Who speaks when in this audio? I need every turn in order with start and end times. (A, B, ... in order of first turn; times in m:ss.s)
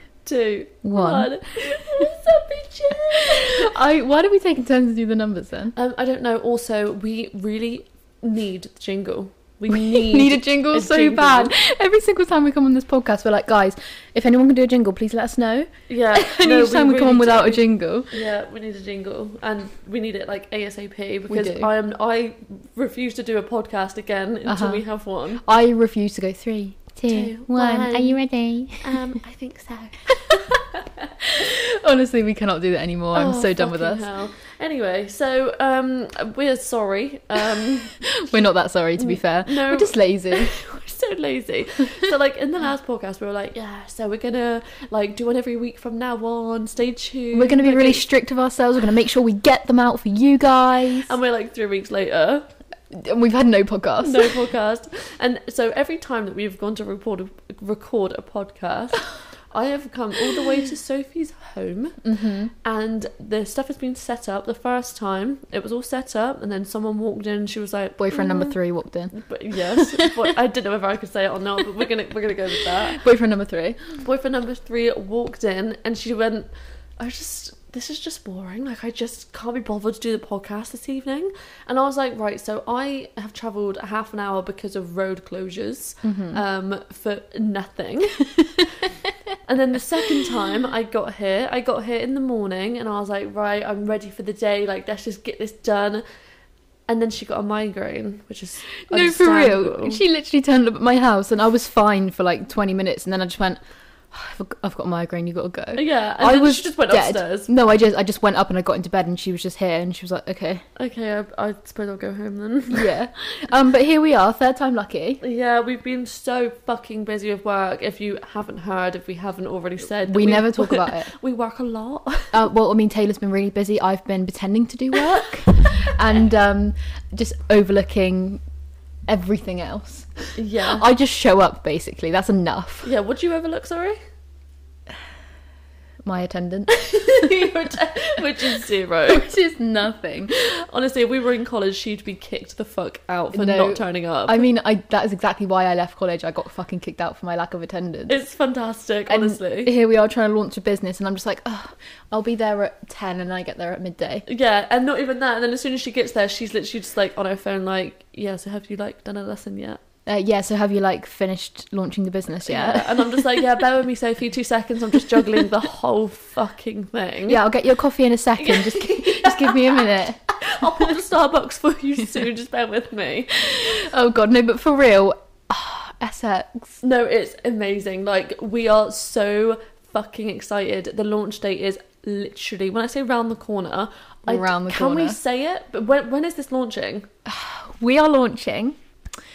0:00.2-0:03.7 A
0:00.8-0:01.3 B
0:03.4-0:05.7 B
0:05.7-0:11.5 A
0:09.7-0:18.2 B
0:15.9-0:25.4 A
0:21.3-0:21.7 B
0:24.4-0:24.8 B
0:25.4-0:29.0 B
0:27.1-0:28.2 A
0:28.8-0:30.8 A
0:31.2-0:34.0 B
0:33.1-0:38.4 A
0:38.0-0:40.5 B
0:39.0-0:48.0 A
0:47.3-0:51.1 B
0:51.0-0:52.4 A
0:52.9-0:54.4 B
0:54.0-1:02.0 A
1:02.0-1:02.5 B
1:02.6-1:08.6 A
1:08.0-1:09.1 B
1:09.1-1:13.0 A
1:09.7-1:10.2 B
1:12.9-1:13.8 B
1:14.0-1:28.3 A
1:26.0-1:26.4 B
1:29.4-1:36.0 A
1:36.9-1:40.0 A
1:38.8-1:43.6 B
1:44.1-1:50.6 B
1:45.8-1:47.5 A
1:50.8-1:52.9 A
1:52.7-1:55.2 B
1:55.2-2:02.4 A
2:00.0-2:01.1 B
2:02.3-2:08.4 B
2:09.1-2:12.9 B
2:10.4-2:10.8 A
2:12.8-2:14.0 A
2:16.0-2:17.6 B
2:16.7-2:19.2 A
2:19.1-2:20.3 B
2:20.3-2:24.4 A
2:23.3-2:28.1 B
2:28.1-2:29.7 A
2:29.1-2:34.2 B
2:34.2-2:39.8 A
2:40.0-2:43.6 B
2:42.4-2:47.4 A
2:47.3-2:51.0 B
2:48.4-2:53.6 A
2:53.5-2:56.8 B
2:56.8-3:07.1 A
3:04.2-3:05.2 B
3:07.2-3:08.8 B